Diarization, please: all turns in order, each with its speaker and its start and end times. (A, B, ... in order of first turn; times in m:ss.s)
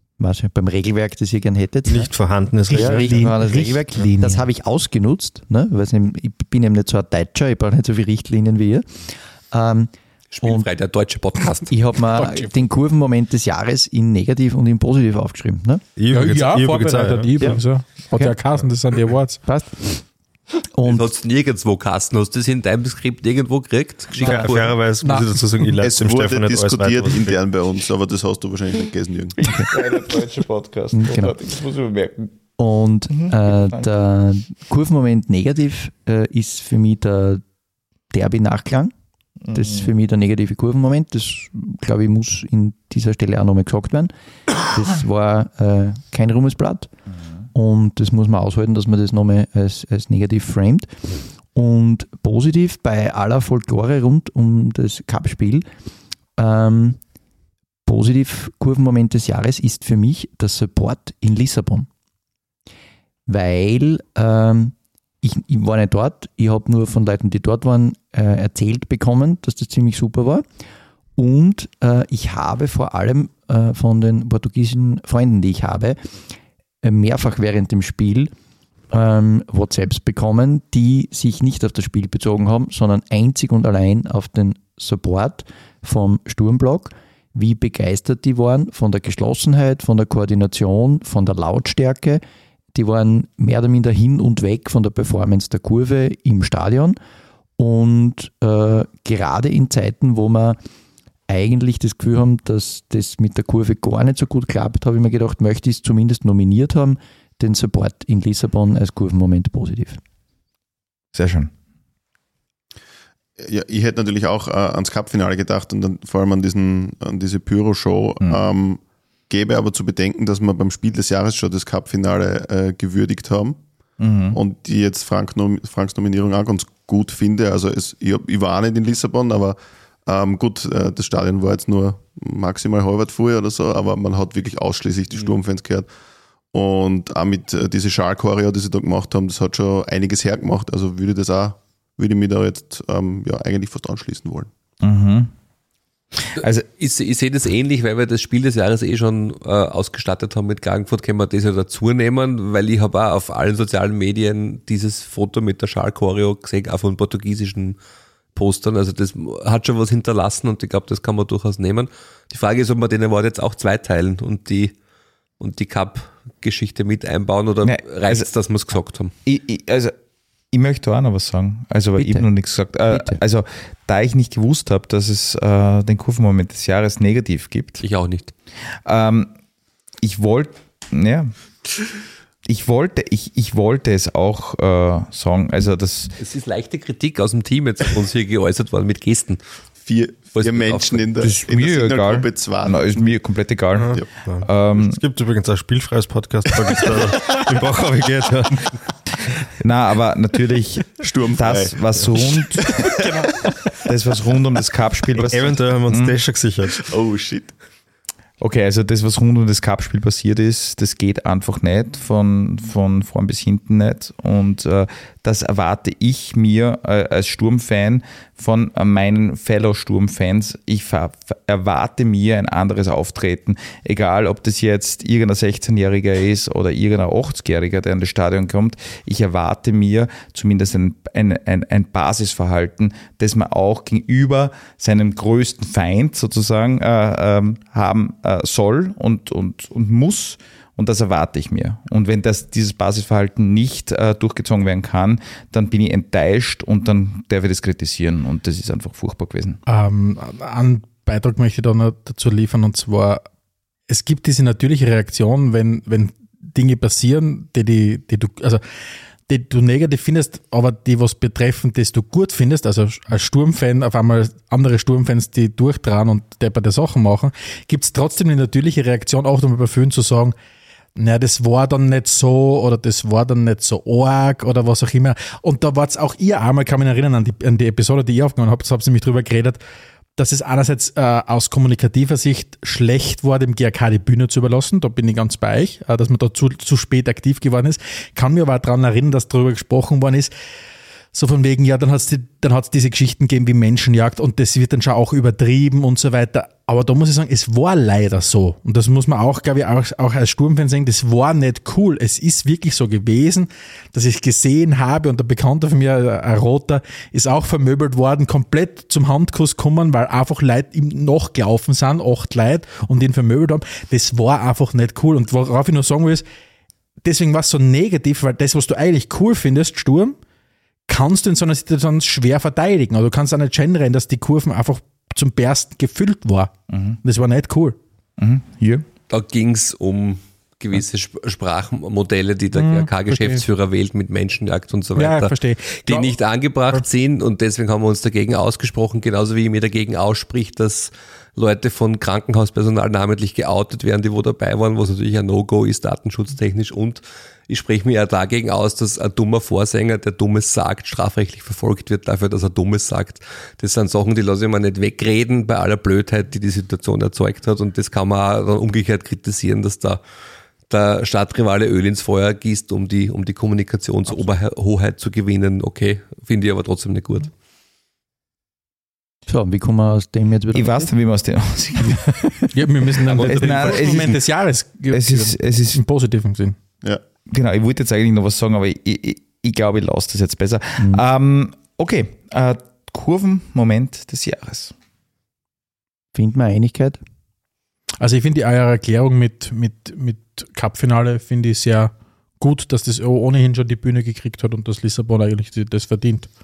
0:00.2-0:02.1 A
0:01.8-0:03.3 B
0:02.7-0:04.4 C
0:02.7-0:10.7 A
0:10.3-0:11.8 D
0:11.7-0:15.8 A
0:12.2-0:12.5 C
0:16.0-0:17.6 B
0:16.1-0:19.4 C
0:18.1-0:18.4 A
0:19.4-0:20.1 A
0:20.7-0:21.1 A
0:20.8-0:24.8 D
0:24.2-0:27.4 B
0:24.2-0:24.5 A
0:25.0-0:25.4 C
0:25.8-0:29.4 E
0:29.4-0:32.4 F
0:29.4-0:29.7 A
0:30.9-0:31.3 A
0:32.6-0:37.4 A
0:33.1-0:33.9 F
0:38.1-0:38.9 A
0:39.4-0:39.9 F
0:39.5-0:46.9 A
0:47.5-0:55.7 A
0:56.4-0:57.0 A
0:57.8-1:01.9 A
1:03.3-1:10.4 A
1:11.2-1:16.2 A
1:16.8-1:18.3 A
1:18.9-1:32.2 A
1:32.7-1:37.0 A
1:37.6-1:40.6 A
1:41.3-1:50.0 A
1:51.1-1:51.5 F
1:53.4-2:03.6 E
2:04.0-2:04.4 F
2:04.3-2:15.9 E
2:16.5-2:24.5 E
2:24.8-2:25.3 F
2:26.2-2:26.6 F
2:26.4-2:37.8 D
2:38.3-2:44.7 D
2:45.4-2:49.1 D
2:47.6-2:48.3 F
2:49.2-2:50.0 F
2:50.5-2:57.8 F
2:52.0-2:52.3 A
2:52.9-2:53.2 A
2:57.8-2:58.3 D
2:58.8-2:59.3 F
3:00.0-3:01.3 F
3:02.4-3:06.1 F
3:06.2-3:09.4 D
3:09.8-3:12.9 E
3:10.3-3:11.0 D
3:11.2-3:15.0 F
3:13.7-3:18.8 B
3:19.6-3:23.0 F
3:21.0-3:21.8 E
3:22.4-3:23.2 E
3:23.8-3:26.1 F
3:25.2-3:26.8 B
3:26.8-3:27.5 E
3:28.4-4:09.6 F
4:09.7-4:13.2 C
4:13.9-4:18.6 C
4:19.3-4:30.3 C
4:31.0-4:39.6 C
4:40.2-4:50.3 C
4:51.1-5:16.2 C
5:17.0-5:20.1 C
5:20.9-5:27.8 C
5:26.7-5:27.0 F
5:28.2-5:28.8 F
5:29.1-6:00.0 D
5:32.5-5:33.4 C
5:35.0-5:36.2 C
6:00.7-6:07.3 D
6:09.3-6:10.9 A
6:10.5-6:12.5 F
6:12.5-6:16.6 C
6:13.1-6:14.0 B
6:13.1-6:14.3 F
6:14.9-6:15.8 F
6:17.3-6:24.7 F
6:20.8-6:21.0 A
6:26.1-6:27.0 A
6:28.0-6:36.3 C